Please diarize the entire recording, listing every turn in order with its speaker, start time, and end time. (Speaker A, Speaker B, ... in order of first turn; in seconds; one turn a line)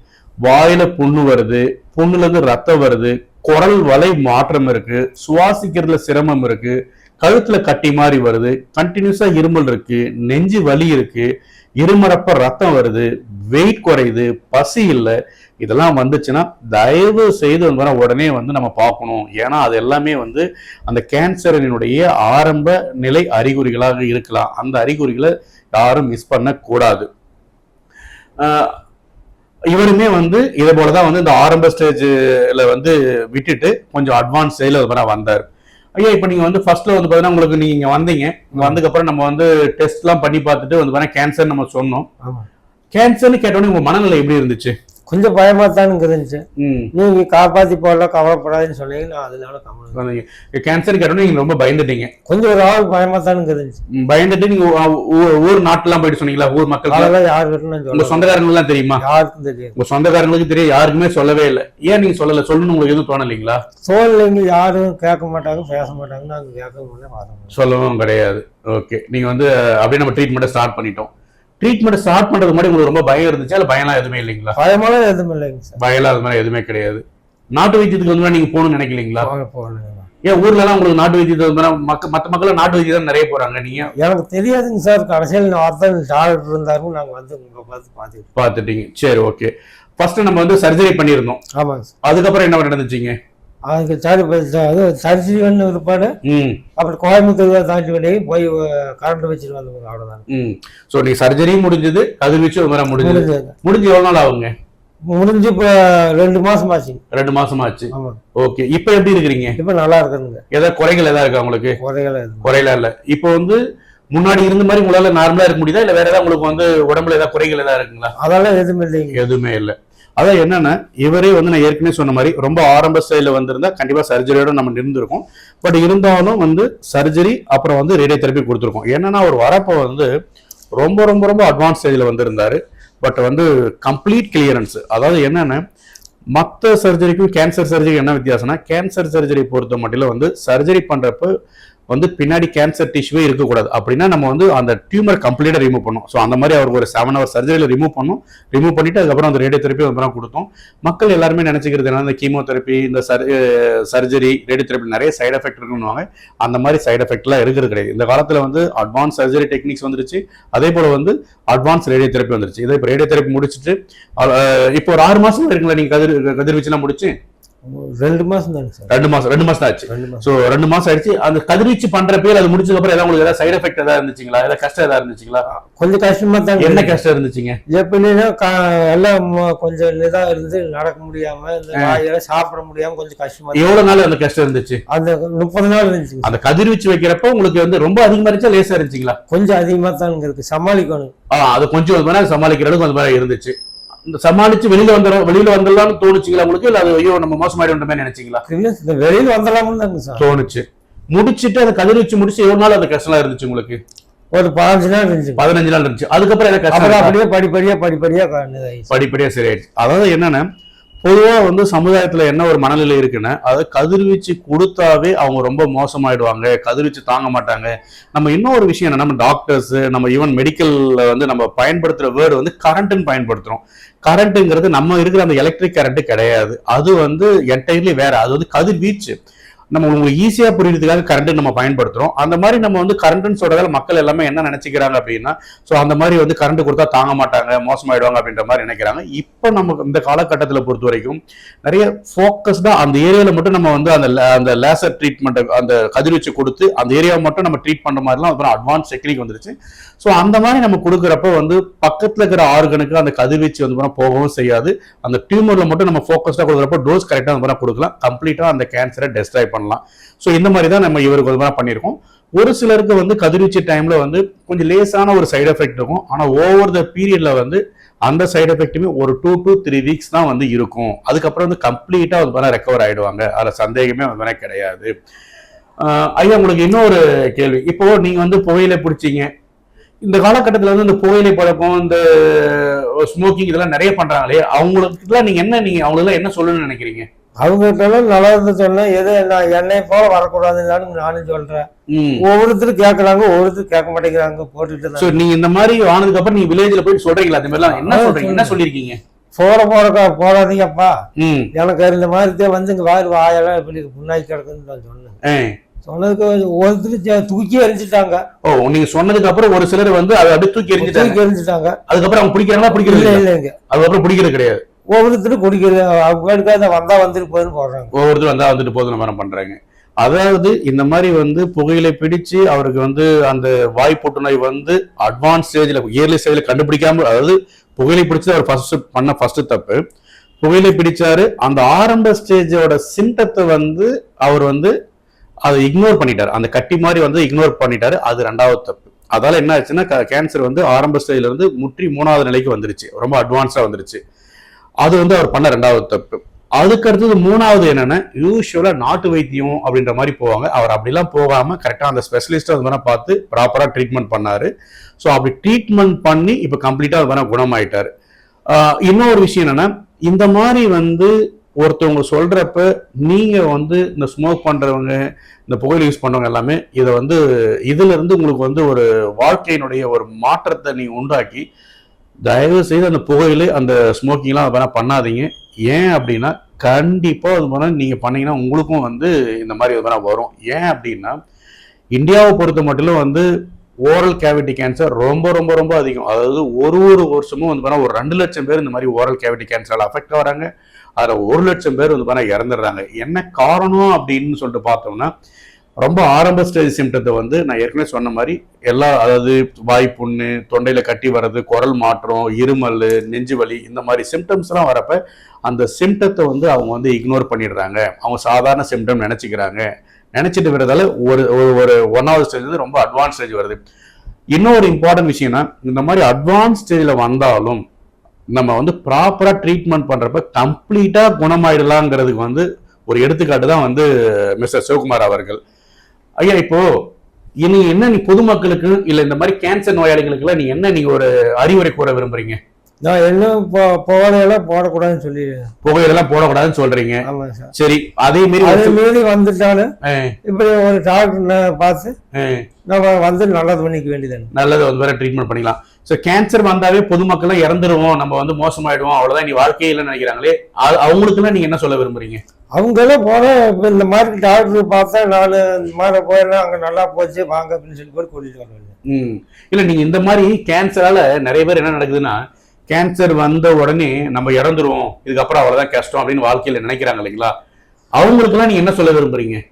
Speaker A: 0.4-11.3
Speaker A: 11.8-27.1
Speaker A: 28.4-28.8
Speaker A: 29.7-35.5
Speaker A: 36.0-42.1
Speaker B: 38.5-38.8
Speaker A: 42.9-44.8
Speaker B: 45.1-46.4
Speaker A: 46.6-46.9
Speaker B: 46.9-50.0
Speaker A: 49.9-52.1
Speaker B: 52.3-53.8
Speaker A: 53.9-57.1
Speaker B: 56.9-58.4
Speaker A: 57.9-59.0
Speaker B: 59.0-59.8
Speaker A: 59.8-63.6
Speaker B: 63.8-67.5
Speaker A: 67.5-71.1
Speaker A: 71.6-74.5
Speaker B: 74.5-75.8
Speaker A: 75.8-79.3
Speaker B: 79.2-80.1
Speaker A: 80.2-83.9
Speaker B: 84.0-88.3
Speaker A: 88.3-91.4
Speaker B: 91.5-91.9
Speaker A: 92.0-93.2
Speaker B: 93.7-96.1
Speaker A: 96.2-96.6
Speaker B: 96.8-100.2
Speaker A: 100.3-104.5
Speaker B: 103.0-103.5
Speaker B: 105.1-107.0
Speaker A: 107.1-109.6
Speaker B: 107.9-108.2
Speaker B: 109.6-110.4
Speaker A: 110.5-111.8
Speaker B: 111.8-112.5
Speaker A: 112.4-113.6
Speaker A: 114.1-118.1
Speaker B: 118.2-119.2
Speaker A: 119.1-130.1
Speaker A: 130.8-135.6
Speaker A: 136.3-141.3
Speaker A: 141.9-167.1
Speaker B: 167.6-168.9
Speaker A: 168.9-175.4
Speaker B: 169.9-170.2
Speaker B: 175.5-177.0
Speaker A: 176.6-177.6
Speaker B: 177.7-183.8
Speaker A: 181.7-182.0
Speaker A: 183.5-184.8
Speaker B: 184.9-186.4
Speaker A: 186.2-189.2
Speaker B: 189.3-191.1
Speaker A: 191.3-198.4
Speaker B: 198.5-200.2
Speaker A: 200.2-203.8
Speaker B: 204.3-205.4
Speaker A: 205.4-207.2
Speaker B: 206.7-208.9
Speaker A: 208.9-210.4
Speaker A: 211.0-229.2
Speaker A: 229.7-274.9
Speaker A: 275.8-279.3
Speaker A: 280.0-287.1
Speaker B: 287.4-291.7
Speaker A: 291.9-292.2
Speaker B: 292.2-295.2
Speaker A: 295.0-299.0
Speaker B: 297.7-298.6
Speaker B: 299.4-300.9
Speaker A: 301.2-301.5
Speaker B: 301.5-305.2
Speaker A: 305.2-305.6
Speaker B: 305.9-308.2
Speaker A: 308.4-311.2
Speaker B: 310.8-311.8
Speaker A: 311.9-314.6
Speaker B: 312.7-313.6
Speaker B: 314.9-317.9
Speaker A: 317.9-329.8
Speaker A: 330.4-334.7
Speaker A: 335.4-344.0
Speaker A: 344.8-357.9
Speaker A: 358.5-371.4
Speaker A: 372.2-381.2
Speaker A: 381.9-383.3
Speaker A: 383.9-395.1
Speaker A: 395.8-409.6
Speaker A: 410.1-413.6
Speaker A: 414.3-417.6
Speaker A: 418.3-425.4
Speaker A: 426.2-426.6
Speaker A: 427.4-432.4
Speaker B: 432.8-435.5
Speaker A: 435.6-438.8
Speaker B: 437.0-437.5
Speaker B: 438.4-439.7
Speaker A: 439.8-440.1
Speaker B: 440.2-441.9
Speaker A: 442.1-442.4
Speaker B: 442.7-444.3
Speaker A: 444.3-452.2
Speaker B: 452.6-458.8
Speaker A: 458.9-467.3
Speaker A: 467.9-469.4